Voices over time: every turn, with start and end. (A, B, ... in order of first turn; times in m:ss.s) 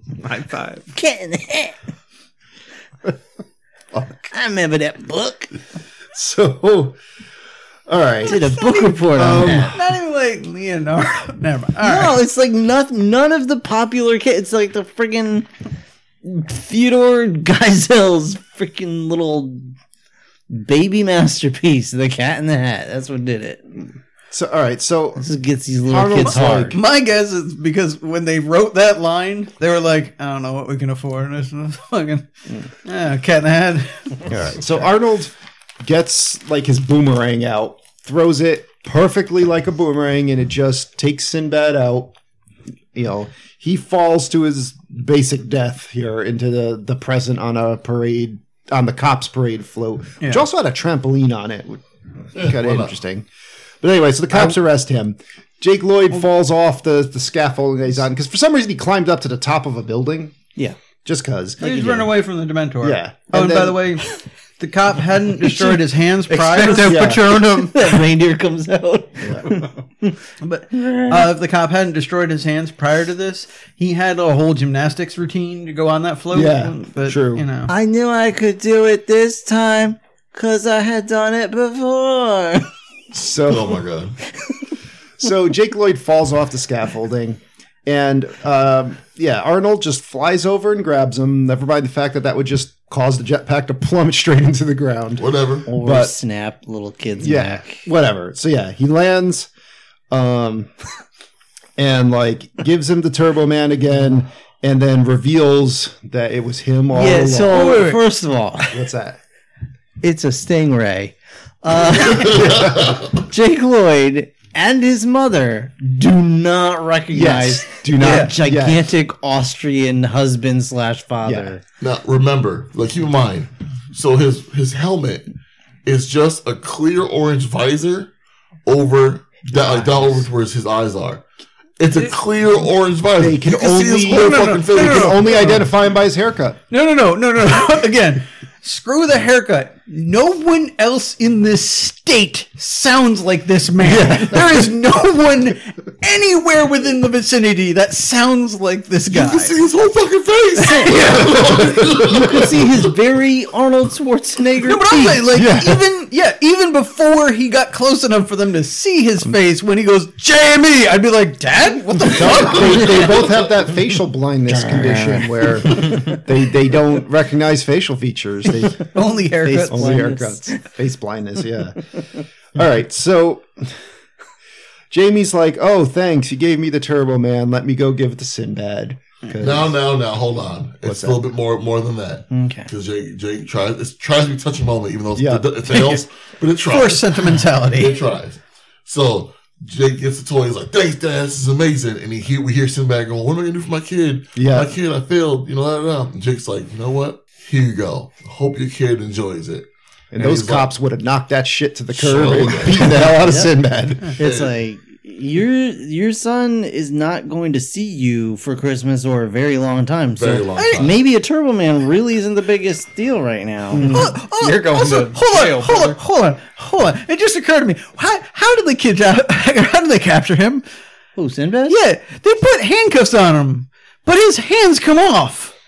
0:00.2-0:00.8 A
0:00.9-0:01.8 B
0:03.9-0:04.3 C
0:04.3-0:05.5 B
0:06.1-0:06.9 C
0:07.9-0:09.9 C
0:08.2-0:09.8 B
0:08.4-0:12.2 D
0:11.8-0:15.5 B
0:16.2-0:19.7 B
0:20.5-0:23.8 B
0:24.3-0:25.3 C
0:25.2-0:26.8 B
0:25.9-0:26.8 C
0:26.2-0:34.3 D
0:34.2-0:42.1 C
0:42.9-0:53.2 C
0:52.3-0:53.0 E
0:53.8-1:00.4 C
1:01.0-1:02.2 C
1:01.6-1:07.0 D
1:01.6-1:02.0 B
1:02.8-1:03.9 C
1:06.3-1:08.0 A
1:06.8-1:07.3 C
1:06.9-1:10.2 B
1:09.2-1:09.6 C
1:10.4-1:17.7 D
1:10.7-1:11.3 B
1:16.3-1:17.4 C
1:17.7-1:22.7 B
1:23.1-1:23.8 C
1:23.1-1:24.2 E
1:25.2-1:36.1 C
1:35.2-1:35.7 E
1:35.7-1:37.8 B
1:37.2-1:39.5 C
1:40.1-1:40.7 C
1:41.8-1:47.8 C
1:46.9-1:48.8 B
1:47.3-1:48.0 D
1:48.7-1:49.2 C
1:50.0-2:01.6 B
1:52.2-1:53.0 C
1:52.3-1:52.6 E
1:57.1-1:58.8 C
1:58.0-1:58.3 D
2:01.2-2:01.5 C
2:01.8-2:05.3 E
2:05.8-2:08.1 E
2:08.6-2:11.2 E
2:11.8-2:15.6 E
2:13.2-2:16.6 C
2:14.2-2:15.6 D
2:16.7-2:29.6 D
2:23.8-2:24.5 B
2:29.1-2:32.9 E
2:30.6-2:31.6 D
2:30.6-2:35.3 B
2:34.6-2:43.1 D
2:35.3-2:35.8 C
2:42.1-2:48.9 C
2:42.2-2:43.5 E
2:44.4-2:46.2 B
2:44.8-2:45.2 A
2:48.9-2:50.0 D
2:49.4-2:50.6 B
2:49.7-2:51.9 C
2:52.5-2:53.8 C
2:54.9-2:59.8 C
2:59.4-3:20.7 E
3:00.8-3:01.2 C
3:02.3-3:02.7 B
3:05.2-3:06.0 C
3:06.6-3:08.0 D
3:14.3-3:14.7 C
3:20.1-3:24.2 C
3:21.9-3:23.0 E
3:22.8-3:34.1 B
3:24.2-3:24.5 E
3:30.2-3:31.0 E
3:30.6-3:30.9 D
3:33.8-3:40.6 D
3:33.8-3:36.0 A
3:41.2-3:41.8 B
3:41.7-3:45.5 D